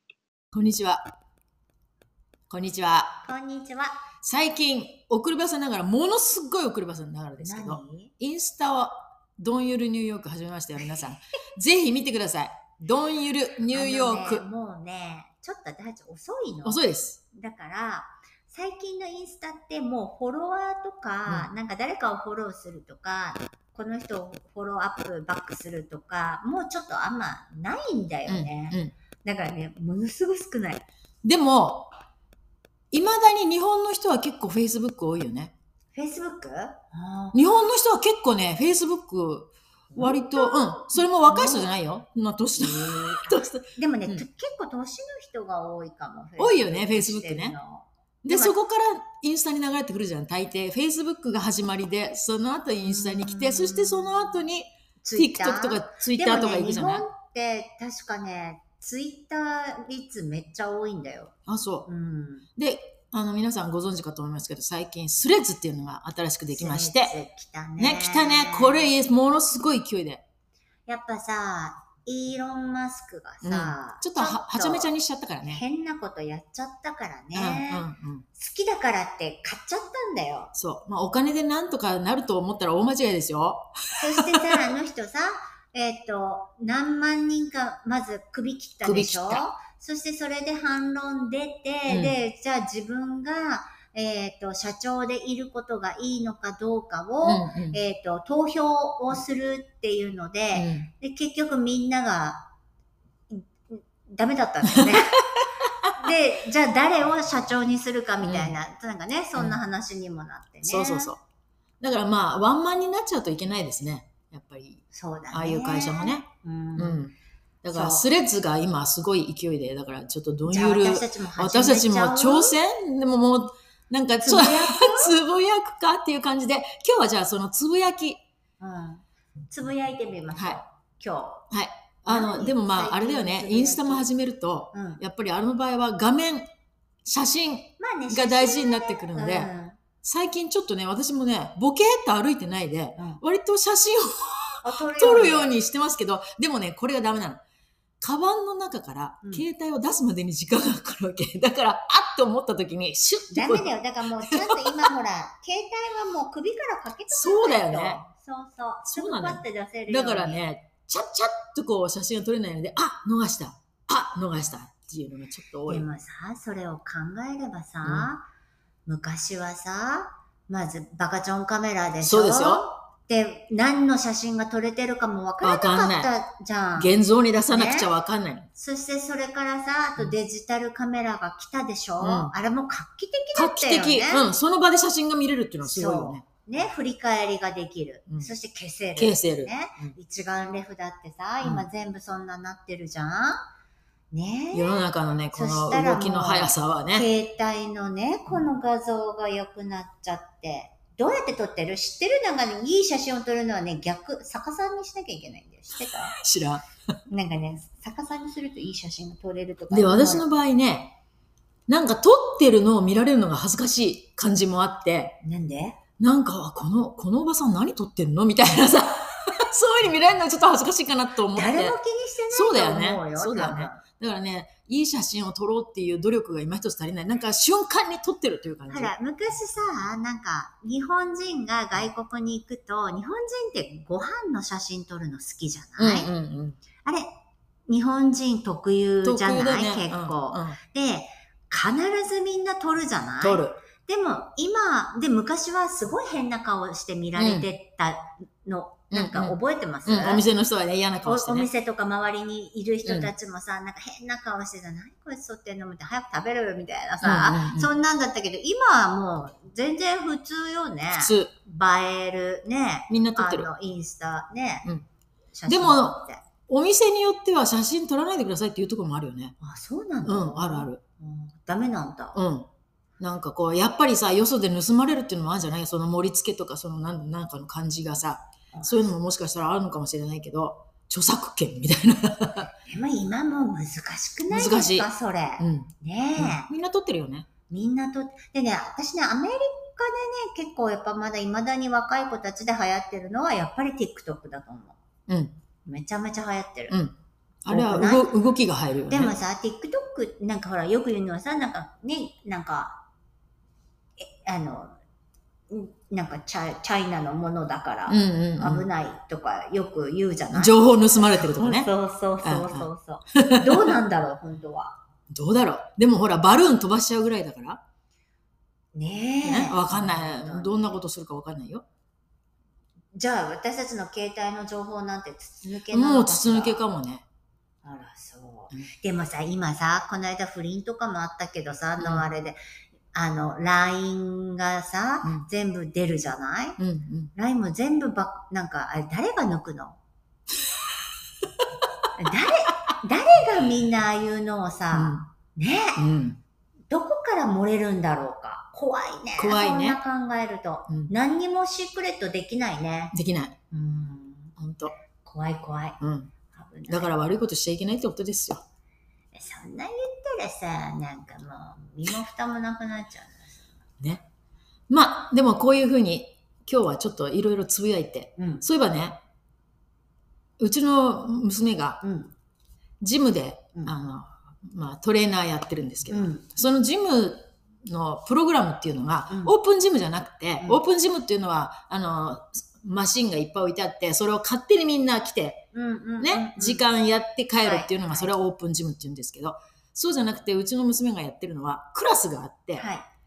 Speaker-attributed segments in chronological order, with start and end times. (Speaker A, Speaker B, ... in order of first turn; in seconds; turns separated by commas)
Speaker A: 0.5-1.0, Speaker A: 2.5-3.2, Speaker B: 3.2-4.0, Speaker A: 4.2-14.4, Speaker B: 7.4-8.1, Speaker B: 13.7-30.9, Speaker A: 16.6-17.2, Speaker A: 28.3-28.9, Speaker A: 31.2-31.9, Speaker A: 32.9-35.5, Speaker B: 36.0-37.4, Speaker A: 37.3-44.2, Speaker B: 39.9-41.7, Speaker B: 42.5-48.5, Speaker A: 46.4-47.6, Speaker A: 48.2-57.0, Speaker B: 52.8-54.4, Speaker B: 55.0-61.3, Speaker A: 61.5-61.9, Speaker B: 61.9-62.5, Speaker A: 62.6-67.1, Speaker B: 66.5-68.9, Speaker A: 67.8-70.2, Speaker B: 70.9-74.9, Speaker A: 73.4-75.6, Speaker B: 75.4-80.5, Speaker A: 77.3-78.2, Speaker A: 80.5-84.7, Speaker B: 83.9-102.5, Speaker A: 88.8-89.4, Speaker A: 91.9-92.2, Speaker A: 97.2-97.8, Speaker A: 100.5-100.9, Speaker B: 103.3-105.2, Speaker A: 104.7-105.9, Speaker B: 105.9-111.1, Speaker A: 108.2-108.6, Speaker A: 109.3-109.6, Speaker A: 110.6-111.2, Speaker A: 111.8-116.2, Speaker B: 114.9-117.1, Speaker A: 116.8-128.2, Speaker B: 117.7-118.0, Speaker B: 120.5-122.6, Speaker B: 124.2-125.2, Speaker B: 128.6-131.5, Speaker A: 130.3-130.6, Speaker A: 131.5-136.5, Speaker B: 132.1-134.1, Speaker B: 134.7-135.0, Speaker A: 137.0-139.5, Speaker B: 137.8-139.8, Speaker A: 140.0-147.4, Speaker B: 143.0-143.2, Speaker B: 144.6-145.5, Speaker A: 148.0-154.9, Speaker B: 153.3-160.4, Speaker A: 157.1-158.0, Speaker A: 158.8-165.9, Speaker B: 165.7-168.2, Speaker A: 167.8-168.1, Speaker B: 168.8-176.9, Speaker A: 172.0-172.7, Speaker A: 175.4-176.1, Speaker A: 176.8-178.5, Speaker B: 177.5-177.9, Speaker B: 178.5-184.3, Speaker A: 182.0-182.3, Speaker A: 183.3-186.2, Speaker B: 185.6-193.5, Speaker A: 189.0-190.0, Speaker A: 191.4-191.7, Speaker B: 194.1-194.8, Speaker A: 194.5-197.1, Speaker B: 195.3-206.2, Speaker A: 206.1-206.7, Speaker B: 207.1-210.2, Speaker A: 209.7-210.9, Speaker A: 211.7-215.2, Speaker B: 215.2-215.8, Speaker A: 216.0-221.8, Speaker B: 221.3-223.8, Speaker A: 222.3-228.9, Speaker B: 228.7-236.1, Speaker A: 235.8-236.6, Speaker B: 236.8-237.1, Speaker B: 237.7-250.2, Speaker A: 239.0-240.6, Speaker A: 243.2-243.6, Speaker A: 247.2-247.5, Speaker A: 248.9-251.5, Speaker B: 251.1-264.7, Speaker A: 252.8-253.1, Speaker A: 257.0-257.7, Speaker A: 260.9-261.3, Speaker A: 262.9-263.5, Speaker B: 265.3-266.2, Speaker A: 265.5-269.4, Speaker B: 269.4-272.2, Speaker A: 270.1-270.8, Speaker A: 272.1-272.5, Speaker A: 273.0-282.5, Speaker B: 278.5-278.9, Speaker B: 282.7-286.5, Speaker A: 284.3-284.9, Speaker A: 285.4-287.3, Speaker B: 287.5-294.8, Speaker A: 295.1-295.4, Speaker B: 295.6-296.8, Speaker A: 296.7-299.1, Speaker B: 297.5-298.1, Speaker B: 298.9-302.8, Speaker B: 304.0-304.8, Speaker B: 305.5-314.8, Speaker A: 307.9-308.7, Speaker A: 310.3-311.7, Speaker A: 312.2-313.8, Speaker A: 315.1-317.6, Speaker B: 318.7-320.8, Speaker A: 319.2-321.6, Speaker B: 322.9-326.6, Speaker A: 325.7-327.1, Speaker B: 327.6-332.4, Speaker A: 331.8-332.1, Speaker B: 332.9-336.6, Speaker A: 336.6-337.1, Speaker B: 337.1-339.8, Speaker B: 342.0-345.9, Speaker A: 344.7-345.1, Speaker A: 345.8-346.2, Speaker B: 346.7-352.9, Speaker A: 349.2-349.8, Speaker A: 352.9-353.4, Speaker B: 353.5-354.4, Speaker A: 354.4-354.8, Speaker B: 355.0-355.8, Speaker A: 355.8-356.1, Speaker B: 356.3-356.9, Speaker A: 356.7-358.4, Speaker B: 359.1-363.4, Speaker A: 364.7-369.0, Speaker B: 368.2-368.4, Speaker A: 370.4-371.8, Speaker B: 371.8-372.1, Speaker A: 372.8-385.5, Speaker B: 375.9-376.2, Speaker B: 379.1-379.4, Speaker B: 385.5-386.6, Speaker A: 386.0-392.7, Speaker B: 387.4-388.1, Speaker B: 392.6-392.9